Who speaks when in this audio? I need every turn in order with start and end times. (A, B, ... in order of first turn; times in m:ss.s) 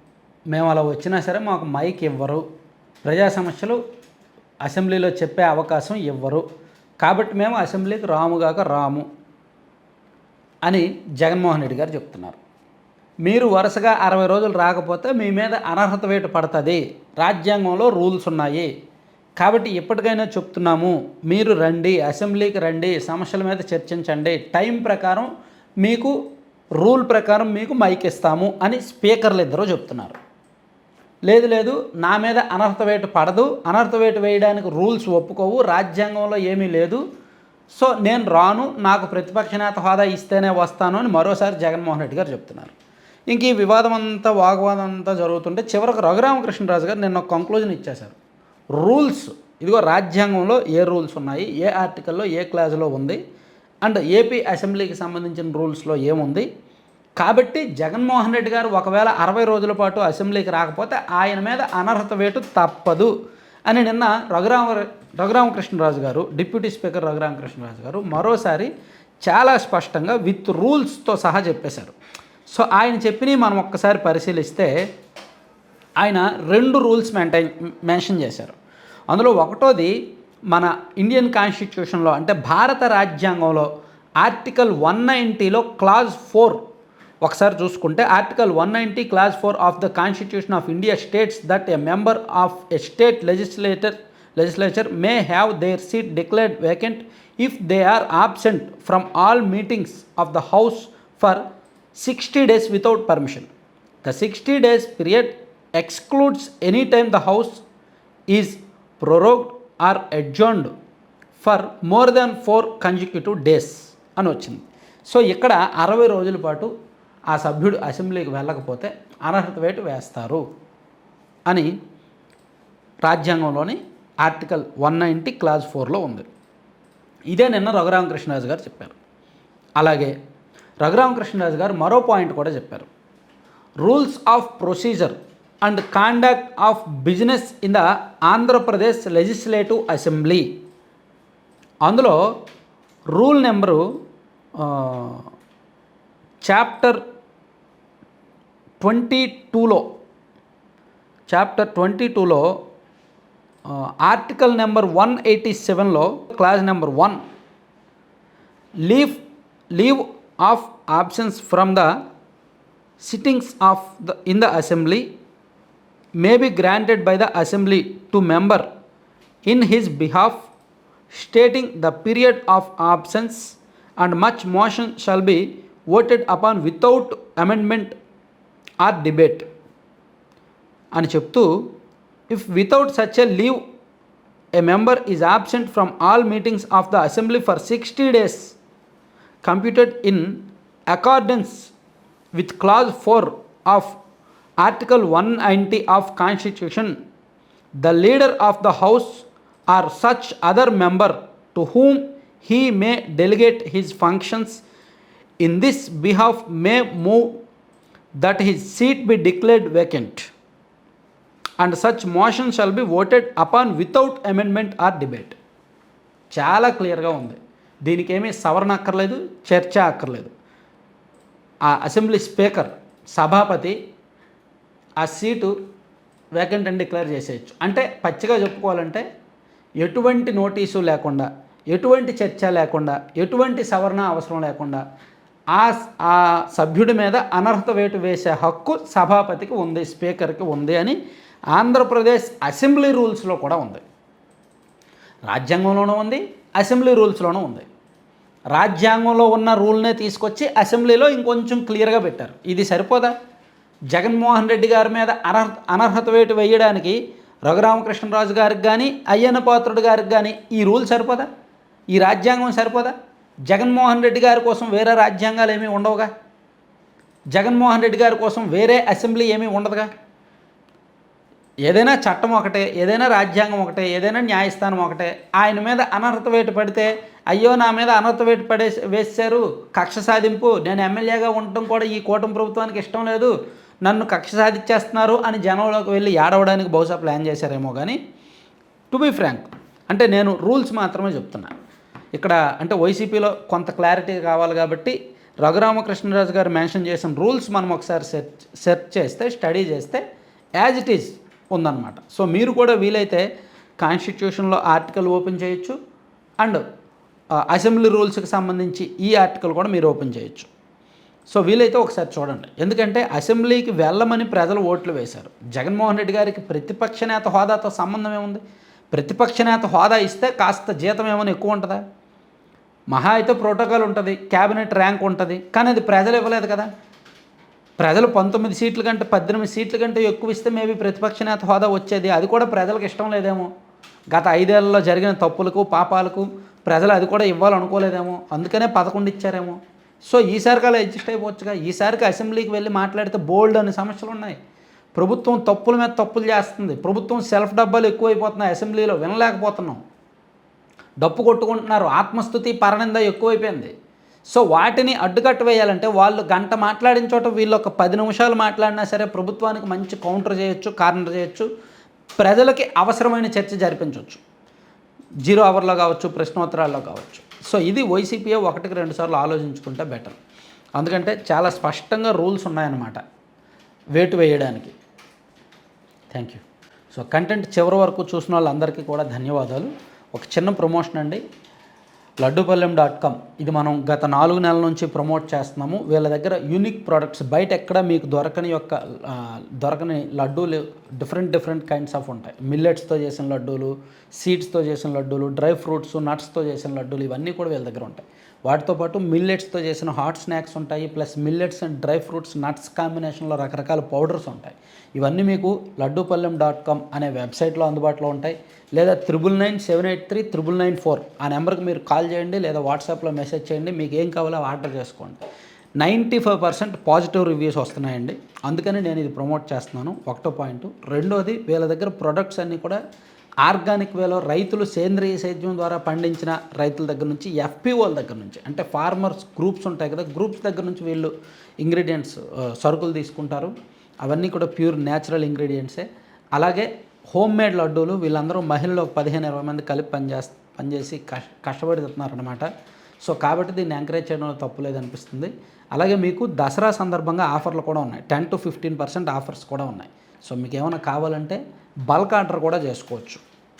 0:00.5-0:02.4 A
0:03.0-0:03.8 A
0:04.6-0:06.4 A
0:07.0-0:09.0 A
0:10.6-0:12.4 A
0:13.2-0:18.7 A
0:19.4-0:25.3 A
0:25.8-0:26.1 A
0:26.8-0:30.2 A
0:31.3-0:37.0 A
0:37.7-0:42.7 A
0:43.3-0:48.2 A
0:48.8-0:53.2 A
0:53.8-0:56.5 A
0:57.2-1:03.1 A
1:03.7-1:08.7 A
1:09.2-1:12.0 A
1:12.5-1:14.7 A
1:16.0-1:18.6 A
1:19.1-1:19.9 A
1:20.5-1:23.7 A
1:24.2-1:26.6 A
1:27.2-1:41.4 A
1:41.9-1:43.5 A
1:44.0-1:47.6 A
1:48.3-1:50.7 A
1:51.4-1:56.7 A
1:57.3-2:00.4 A
2:01.5-2:01.7 A
2:03.0-2:06.2 A
2:07.3-2:09.0 A
2:09.8-2:10.1 A
2:10.8-2:12.9 A
2:13.8-2:20.5 A
2:21.8-2:22.2 A
2:23.1-2:23.8 A
2:24.6-2:25.3 A
2:26.4-2:27.0 A
2:28.8-2:29.9 A
2:31.3-2:32.5 A
2:33.7-2:37.2 A
2:38.8-2:39.2 A
2:39.7-2:41.9 A
2:43.0-2:45.0 A
2:46.2-2:48.6 A
2:49.4-2:50.5 A
2:51.1-2:58.0 A
2:58.8-2:59.4 A
3:00.9-3:01.7 A
3:02.3-3:03.6 A
3:04.6-3:08.6 A
3:09.4-3:10.4 A
3:10.9-3:11.7 A
3:12.3-3:14.0 A
3:14.6-3:17.0 A
3:17.8-3:24.6 A
3:25.4-3:27.3 A
3:28.2-3:30.3 A
3:31.6-3:35.4 A
3:36.3-3:40.3 A
3:41.6-3:43.7 A
3:45.0-3:45.5 A
3:46.4-3:49.0 A
3:49.8-3:54.8 A
3:55.5-4:01.0 A
4:01.5-4:03.8 A
4:05.3-4:07.6 A
4:08.5-4:13.1 A
4:13.9-4:21.3 A
4:21.9-4:22.9 A
4:23.5-4:26.1 A
4:27.3-4:29.9 A
4:31.6-4:43.3 A
4:43.8-4:48.0 A
4:48.9-4:51.5 A
4:52.1-5:00.0 A
5:00.6-5:03.2 A
5:03.8-5:05.8 A
5:07.4-5:10.5 A
5:11.3-5:21.8 A
5:22.9-5:26.7 A
5:27.8-5:33.5 A
5:34.1-5:44.4 A
5:44.9-5:49.8 A
5:51.0-5:53.7 A
5:54.3-6:01.5 A
6:02.2-6:04.2 A
6:05.2-6:10.2 A
6:10.8-6:13.0 A
6:13.9-6:14.7 A
6:16.1-6:21.2 A
6:22.2-6:55.2 A
6:55.8-7:02.8 A
7:03.4-7:22.5 A
7:23.0-7:33.2 A